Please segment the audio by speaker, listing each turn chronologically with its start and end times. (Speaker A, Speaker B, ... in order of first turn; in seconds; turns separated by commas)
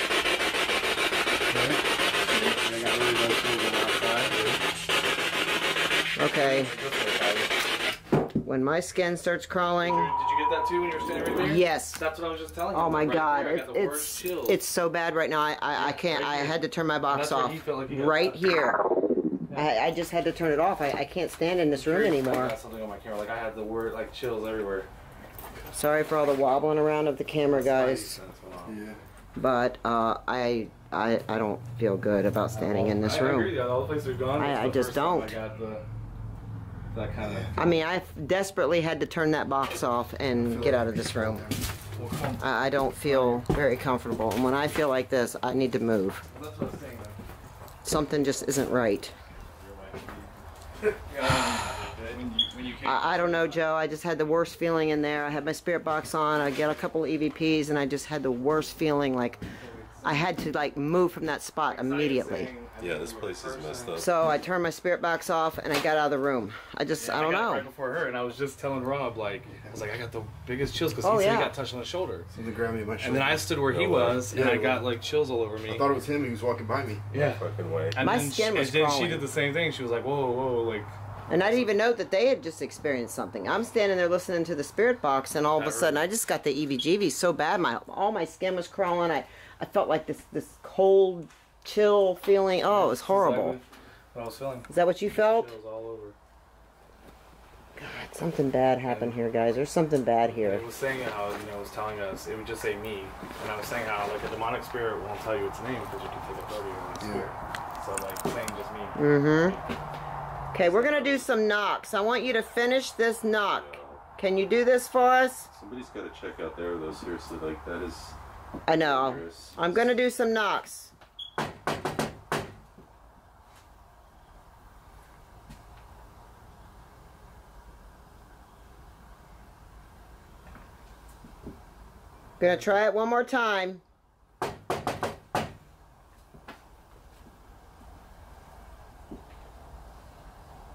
Speaker A: 1.5-4.6, Speaker B: 6.2-6.7, Speaker A: 6.3-7.6, Speaker B: 8.4-10.1, Speaker A: 9.8-14.6, Speaker B: 11.4-12.0, Speaker B: 12.7-18.8, Speaker A: 15.7-18.4, Speaker B: 19.5-22.6, Speaker A: 21.7-24.9, Speaker B: 25.7-28.2, Speaker A: 27.4-29.0, Speaker C: 28.6-29.0, Speaker B: 29.4-33.7, Speaker A: 32.5-35.9, Speaker B: 34.4-35.4, Speaker A: 36.9-37.7, Speaker C: 37.2-37.5, Speaker B: 37.6-41.5, Speaker C: 40.3-42.0, Speaker A: 41.9-43.5, Speaker B: 42.4-46.2, Speaker A: 46.3-47.2, Speaker B: 47.8-49.1, Speaker A: 49.6-50.3, Speaker A: 50.9-53.7, Speaker B: 52.8-59.4, Speaker A: 59.4-60.3, Speaker B: 60.0-62.5, Speaker A: 61.7-64.0, Speaker D: 62.8-64.1, Speaker B: 64.0-67.7, Speaker A: 67.0-72.3, Speaker B: 71.0-71.5, Speaker C: 72.3-73.5, Speaker A: 73.0-75.9, Speaker D: 73.7-74.4, Speaker C: 74.3-74.9, Speaker C: 75.6-77.0, Speaker A: 77.1-81.7, Speaker D: 77.1-78.0, Speaker B: 78.0-79.3, Speaker B: 81.3-93.6, Speaker A: 85.5-86.0, Speaker A: 92.7-94.7, Speaker B: 94.7-95.5, Speaker A: 95.2-96.2, Speaker B: 97.8-100.7, Speaker A: 98.8-99.2, Speaker A: 100.4-109.7, Speaker C: 107.0-107.3, Speaker B: 109.0-109.6, Speaker B: 110.5-115.5, Speaker A: 110.5-111.3, Speaker D: 113.5-114.0, Speaker D: 115.5-118.2, Speaker B: 118.7-120.9, Speaker D: 118.8-119.9, Speaker B: 132.4-133.8